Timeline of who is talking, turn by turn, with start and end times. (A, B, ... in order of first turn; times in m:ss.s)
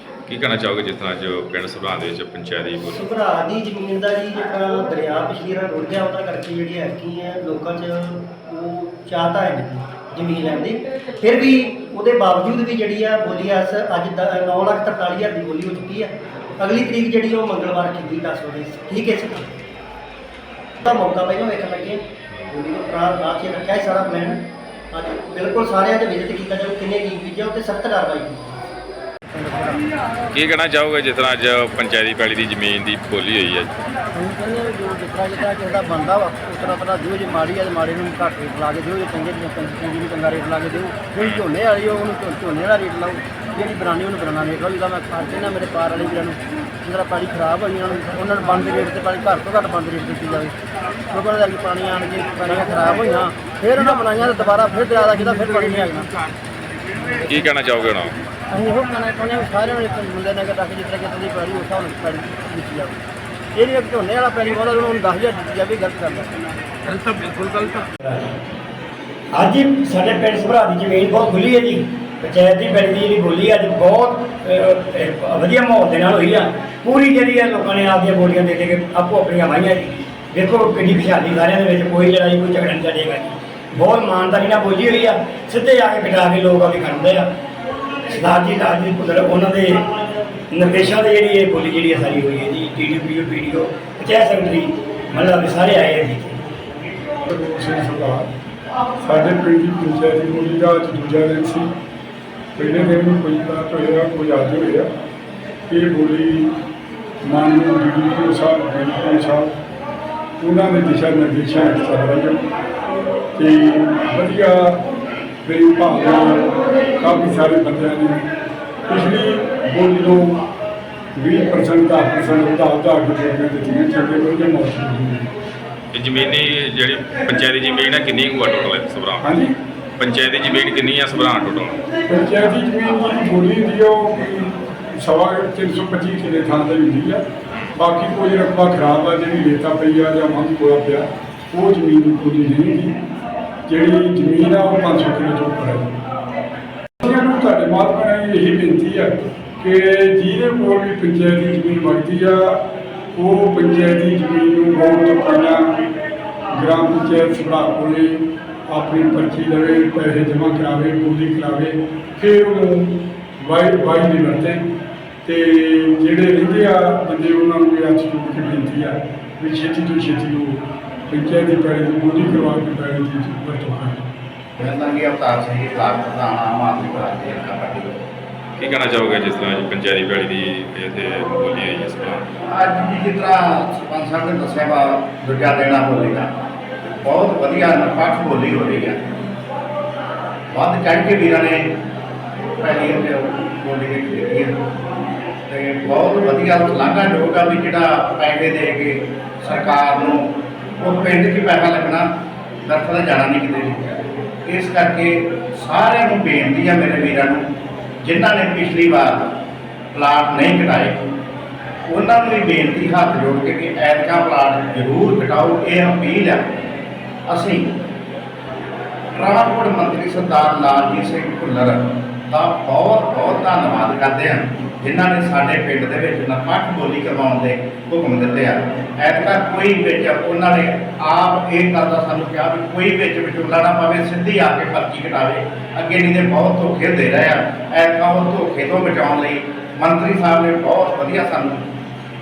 0:00.3-0:03.0 A
0:02.9-0:19.5 B
0:20.8-0:28.7 B
0:29.3-0:29.8 C
0:30.3-0:33.7 A
0:34.1-0:50.5 C
0:51.1-0:56.1 C
0:57.2-0:58.2 A
0:58.5-1:03.0 C
1:03.6-1:06.3 C
1:06.9-1:07.3 C
1:08.0-1:08.4 D
1:09.3-1:27.3 D
1:28.1-1:29.9 D
1:30.5-1:36.4 D
1:37.2-1:38.3 E
1:39.0-1:41.7 E
1:42.5-1:44.9 E
1:45.7-1:46.5 E
1:47.2-1:49.5 E
1:50.4-1:52.4 E
1:53.4-1:54.8 E
1:55.5-1:58.3 E
1:58.9-2:00.4 E
2:01.2-2:05.3 E
2:05.9-2:09.3 A
2:09.2-2:09.5 E
2:10.0-2:11.8 A
2:12.1-2:17.2 E
2:17.8-2:23.0 E
2:23.7-2:26.0 E
2:27.0-2:35.8 E
2:36.6-2:44.7 E
2:45.2-2:54.0 E
2:54.6-2:58.0 F
2:58.6-3:02.2 A
3:02.5-3:06.3 F
3:07.0-3:09.0 F
3:10.5-3:11.8 F
3:12.6-3:14.6 F
3:15.5-3:20.2 F
3:20.8-3:22.1 F
3:22.7-3:27.4 F
3:28.0-3:29.3 F
3:29.9-3:31.1 F
3:31.9-3:36.5 F
3:37.3-3:37.8 F
3:39.1-4:01.7 F